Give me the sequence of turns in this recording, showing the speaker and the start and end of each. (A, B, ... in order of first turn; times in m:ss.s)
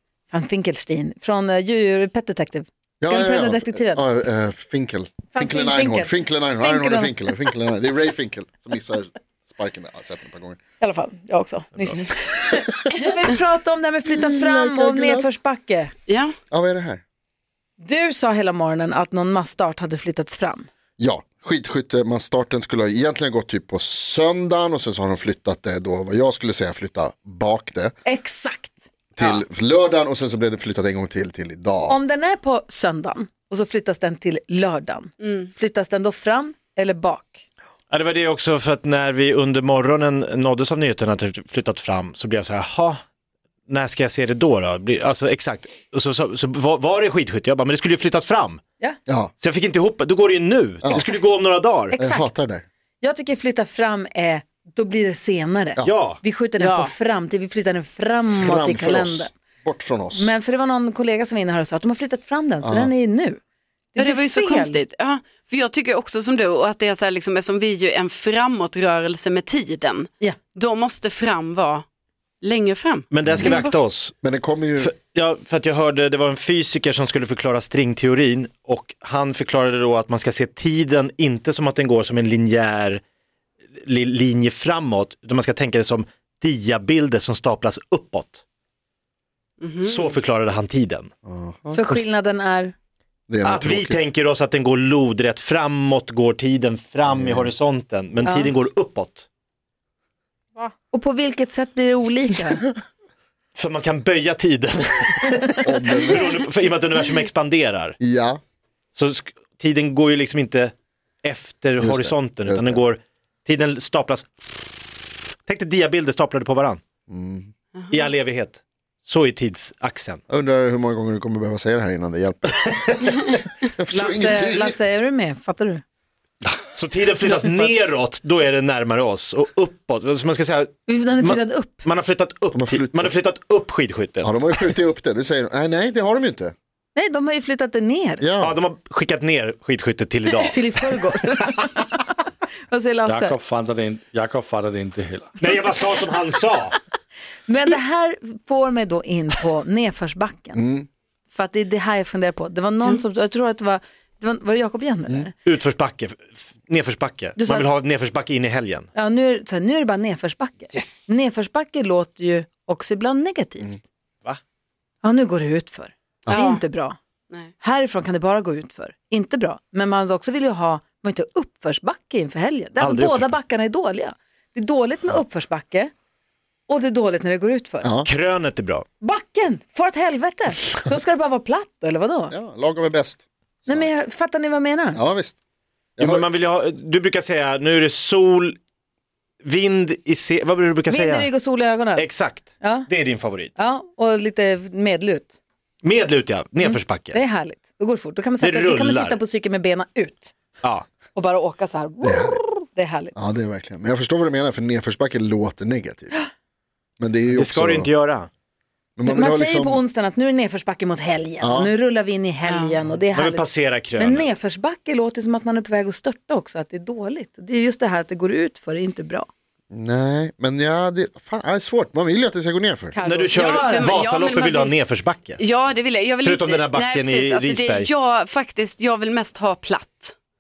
0:00.3-0:04.0 A
0:03.0-0:10.6 B
0:05.3-0:07.2 A
0:10.8-0:15.9 A
0:14.1-0:15.3 B
0:16.1-0:16.4 C
0:16.5-0:17.0 B
0:17.8-0:20.7 A
0:21.0-0:27.9 B
0:28.0-0:28.8 A
0:29.2-0:32.0 B
0:31.8-0:37.4 A
0:35.2-0:35.5 C
0:37.9-0:43.0 D
0:43.7-0:48.6 D
0:49.1-0:49.3 B
0:49.4-0:52.0 D
0:50.8-0:51.1 B
0:51.9-0:52.6 B
0:52.0-0:52.3 A
0:53.0-0:59.3 A
0:55.8-0:56.2 D
0:56.6-0:56.9 C
0:58.3-1:00.3 B
1:00.1-1:03.4 A
1:02.6-1:02.9 B
1:04.0-1:04.8 A
1:04.0-1:11.8 C
1:12.4-1:13.7 C
1:13.1-1:14.2 D
1:13.2-1:13.6 B
1:14.2-1:14.9 B
1:14.8-1:23.0 D
1:23.7-1:28.4 D
1:29.6-1:30.2 C
1:29.8-1:31.1 D
1:31.2-1:32.0 B
1:31.7-1:32.7 A
1:33.3-1:34.0 B
1:33.4-1:39.3 D
1:37.1-1:37.5 B
1:38.2-1:38.5 A
1:40.9-1:42.6 A
1:43.6-1:48.0 D
1:45.6-1:46.4 B
1:48.0-1:48.4 B
1:48.9-1:54.9 D
1:51.8-1:52.8 B
1:55.5-1:56.8 D
1:57.1-1:57.5 B
1:57.9-2:00.2 D
2:00.3-2:04.8 B
2:03.9-2:05.8 A
2:06.4-2:14.8 D
2:10.9-2:11.9 A
2:12.5-2:13.2 B
2:14.2-2:16.6 B
2:17.0-2:18.3 A
2:18.2-2:18.6 B
2:18.4-2:20.8 D
2:20.5-2:21.9 A
2:22.7-2:23.4 A
2:23.1-2:25.9 E
2:25.4-2:26.8 D
2:27.5-2:30.6 A
2:30.6-2:30.9 B
2:31.3-2:35.3 A
2:35.4-2:38.9 D
2:37.4-2:37.7 A
2:39.0-2:43.8 A
2:45.0-2:47.0 A
2:46.3-2:46.6 C
2:47.6-2:55.9 A
2:52.8-2:53.4 D
2:56.7-2:57.9 A
2:57.8-2:58.1 B
2:58.0-2:58.8 D
2:59.0-3:02.3 A
3:02.3-3:03.9 B
3:03.7-3:05.0 A
3:05.0-3:05.4 B
3:06.0-3:06.2 B
3:06.0-3:08.6 D
3:09.4-3:11.3 D
3:10.9-3:12.1 A
3:12.0-3:13.5 D
3:12.6-3:12.9 A
3:13.6-3:15.4 A
3:15.8-3:17.2 D
3:16.6-3:20.4 A
3:18.4-3:19.2 D
3:21.1-3:23.1 A
3:22.0-3:22.4 B
3:23.2-3:26.2 B
3:27.0-3:27.9 B
3:27.3-3:28.3 D
3:29.0-3:29.8 B
3:29.0-3:39.3 A
3:31.4-3:31.7 B
3:32.5-3:32.8 C
3:33.1-3:34.3 D
3:39.7-3:43.0 B
3:42.9-3:44.0 A
3:43.0-3:45.4 D
3:43.3-3:44.8 C
3:45.4-3:50.2 C
3:46.2-3:47.9 D